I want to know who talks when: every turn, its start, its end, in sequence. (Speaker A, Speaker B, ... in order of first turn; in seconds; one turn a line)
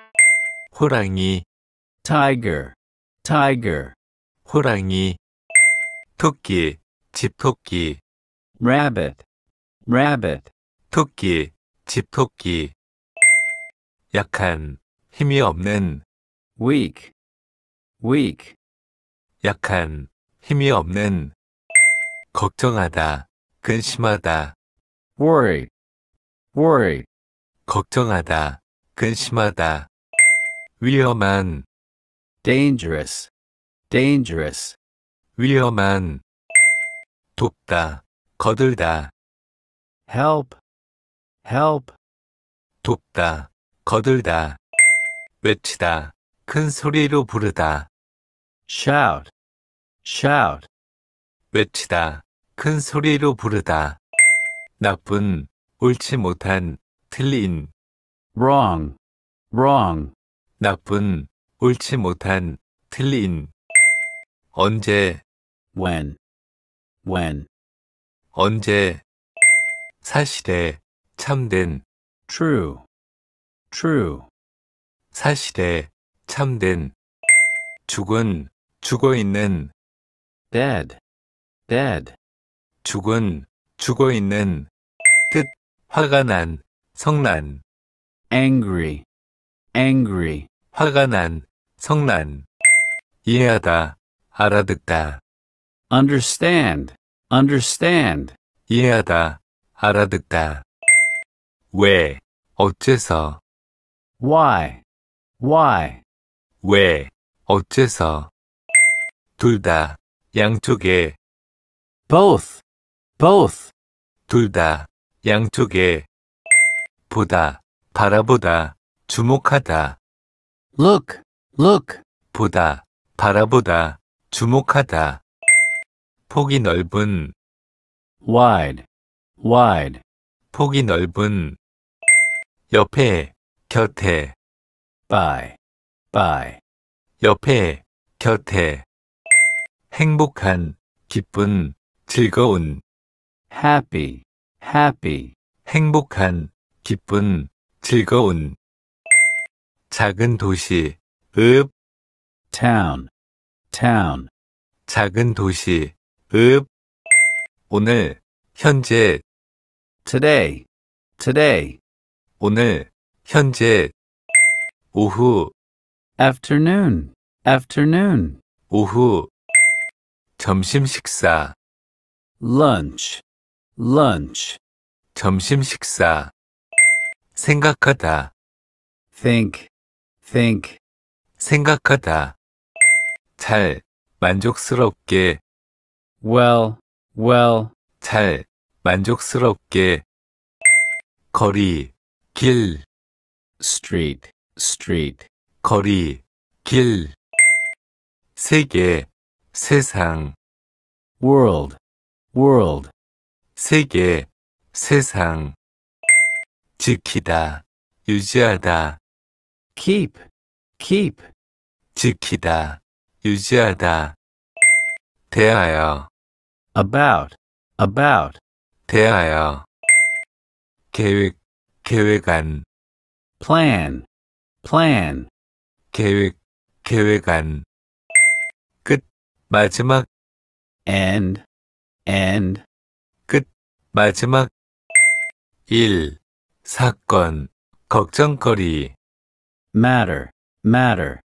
Speaker A: 0.7-1.4
Speaker B: 2.0-3.9
Speaker A: 4.4-5.2
Speaker A: 6.2-8.0
Speaker B: 8.6-9.2
Speaker B: 9.8-10.5
Speaker A: 10.9-12.7
Speaker A: 14.1-16.0
Speaker B: 16.6-17.1
Speaker B: 18.0-18.6
Speaker A: 19.4-21.3
Speaker A: 22.3-24.5
Speaker B: 25.2-25.7
Speaker B: 26.5-27.1
Speaker A: 27.7-29.9
Speaker A: 30.8-31.6
Speaker B: 32.4-33.3
Speaker B: 33.9-34.8
Speaker A: 35.4-36.2
Speaker A: 37.4-39.1
Speaker B: 40.1-40.6
Speaker B: 41.4-42.0
Speaker A: 42.8-44.6
Speaker A: 45.4-47.9
Speaker B: 48.7-49.3
Speaker B: 50.0-50.7
Speaker A: 51.5-54.0
Speaker A: 54.8-57.7
Speaker B: 58.3-59.0
Speaker B: 59.5-60.1
Speaker A: 60.6-63.5
Speaker A: 64.5-65.2
Speaker B: 65.7-66.2
Speaker B: 67.0-67.5
Speaker A: 68.3-69.0
Speaker A: 70.0-71.8
Speaker B: 72.3-72.8
Speaker B: 73.7-74.3
Speaker A: 75.1-76.9
Speaker A: 77.9-79.7
Speaker B: 80.5-81.0
Speaker B: 81.7-82.2
Speaker A: 82.8-84.7
Speaker A: 85.3-87.6
Speaker B: 88.3-89.0
Speaker B: 89.7-90.5
Speaker A: 90.7-92.5
Speaker A: 93.2-95.2
Speaker B: 95.9-98.3
Speaker A: 98.7-100.6
Speaker A: 101.7-103.4
Speaker B: 104.2-104.8
Speaker B: 105.4-106.0
Speaker A: 106.6-108.3
Speaker A: 109.4-111.2
Speaker B: 112.1-112.6
Speaker B: 113.2-113.7
Speaker A: 114.3-116.1
Speaker A: 117.1-120.0
Speaker B: 120.8-122.0
Speaker A: 122.3-125.2
Speaker A: 126.3-127.3
Speaker B: 128.2-128.8
Speaker B: 129.4-130.0
Speaker A: 130.5-131.6
Speaker A: 132.7-134.3
Speaker B: 135.1-135.6
Speaker B: 136.1-136.6
Speaker A: 137.2-138.8
Speaker A: 139.9-142.8
Speaker B: 143.5-145.3
Speaker A: 145.7-148.6
Speaker A: 149.9-151.7
Speaker B: 152.5-153.1
Speaker B: 153.7-154.3
Speaker A: 154.9-156.7
Speaker A: 157.7-159.2
Speaker B: 160.0-160.7
Speaker B: 161.2-161.8
Speaker A: 162.4-163.9
Speaker A: 164.9-165.5
Speaker B: 166.2-168.4
Speaker A: 168.7-169.3
Speaker A: 170.4-171.5
Speaker B: 172.4-173.2
Speaker B: 173.8-174.6
Speaker A: 175.1-176.3
Speaker A: 177.3-178.3
Speaker B: 179.1-179.7
Speaker B: 180.2-180.8
Speaker A: 181.4-182.3
Speaker A: 183.4-185.4
Speaker B: 186.2-187.7
Speaker A: 188.0-190.0
Speaker A: 191.3-192.8
Speaker B: 193.6-195.3
Speaker A: 195.6-197.1
Speaker A: 198.3-200.3
Speaker B: 201.2-201.8
Speaker B: 202.3-202.9
Speaker A: 203.6-205.6
Speaker A: 206.8-209.0
Speaker B: 209.7-210.3
Speaker B: 210.8-211.3
Speaker A: 211.9-214.2
Speaker A: 215.3-216.1
Speaker B: 216.7-218.4
Speaker A: 218.9-219.7
Speaker A: 220.9-222.6
Speaker B: 223.4-224.1
Speaker B: 224.6-225.3
Speaker A: 225.9-227.7
Speaker A: 228.8-230.1
Speaker B: 230.8-231.4
Speaker B: 232.1-232.6
Speaker A: 233.3-234.5
Speaker A: 235.7-238.9
Speaker B: 239.7-241.2